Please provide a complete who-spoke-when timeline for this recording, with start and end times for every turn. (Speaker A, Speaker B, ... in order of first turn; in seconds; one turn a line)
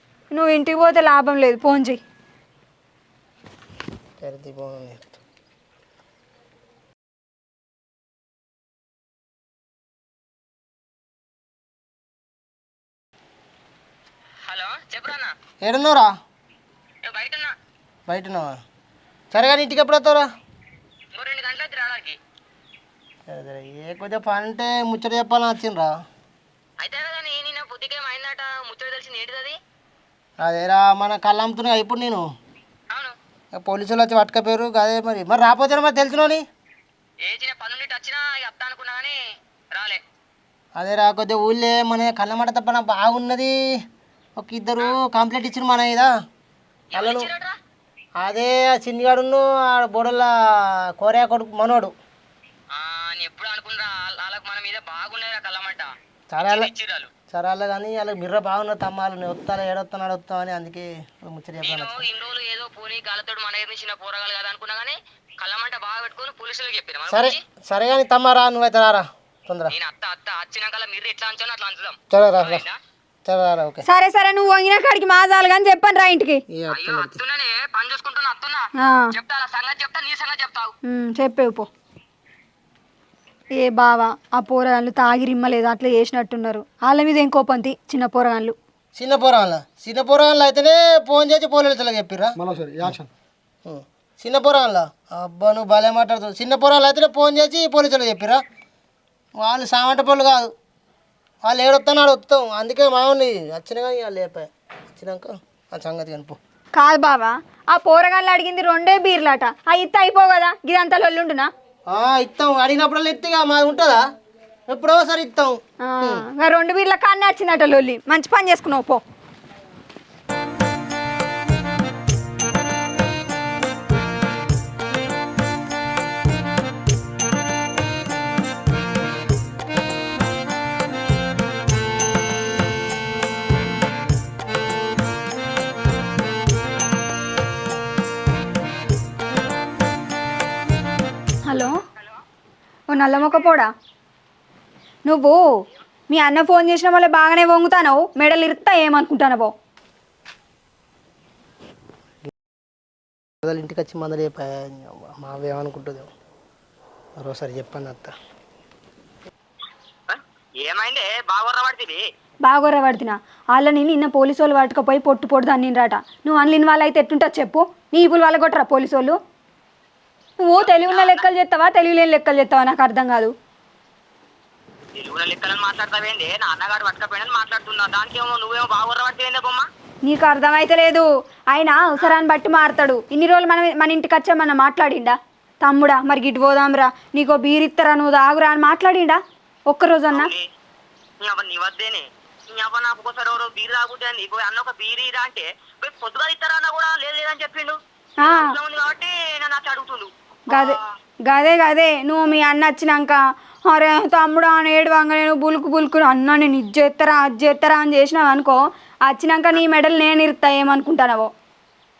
Speaker A: 0.3-2.0
Speaker B: 4.2-5.1
Speaker C: 14.5-15.3
Speaker B: 15.6-16.1
Speaker C: 17.1-17.5
Speaker B: 18.1-18.5
Speaker B: 19.3-20.2
Speaker C: 21.1-22.2
Speaker B: 23.3-25.9
Speaker C: 26.8-29.6
Speaker B: 30.4-32.2
Speaker B: 33.5-36.4
Speaker C: 37.2-39.1
Speaker C: 39.7-40.0
Speaker B: 40.8-43.5
Speaker B: 44.4-46.1
Speaker C: 46.9-47.5
Speaker B: 46.9-47.3
Speaker B: 48.2-51.9
Speaker C: 52.7-55.9
Speaker B: 56.3-56.7
Speaker C: 56.5-57.1
Speaker B: 57.3-62.0
Speaker C: 61.6-67.4
Speaker B: 67.1-69.7
Speaker C: 69.7-72.7
Speaker B: 72.1-72.6
Speaker B: 73.3-73.8
Speaker A: 73.8-76.4
Speaker B: 76.5-77.2
Speaker C: 76.7-78.6
Speaker C: 79.2-80.7
Speaker A: 80.9-81.7
Speaker A: 83.6-88.5
Speaker B: 88.9-93.0
Speaker B: 93.7-98.4
Speaker B: 99.4-100.5
Speaker B: 101.4-106.4
Speaker A: 106.7-111.5
Speaker B: 111.9-114.0
Speaker B: 114.7-116.2
Speaker A: 115.8-119.0
Speaker A: 141.5-141.7
Speaker A: 142.9-143.7
Speaker A: 145.1-145.3
Speaker A: 146.1-149.5
Speaker B: 153.4-156.1
Speaker B: 157.2-158.1
Speaker C: 160.1-162.0
Speaker A: 162.4-169.2
Speaker A: 170.4-173.3
Speaker C: 170.6-171.2
Speaker C: 175.0-179.6
Speaker A: 180.0-190.3
Speaker C: 190.1-190.4
Speaker C: 191.2-200.8
Speaker A: 198.2-198.6
Speaker A: 200.5-200.8
Speaker A: 201.3-211.3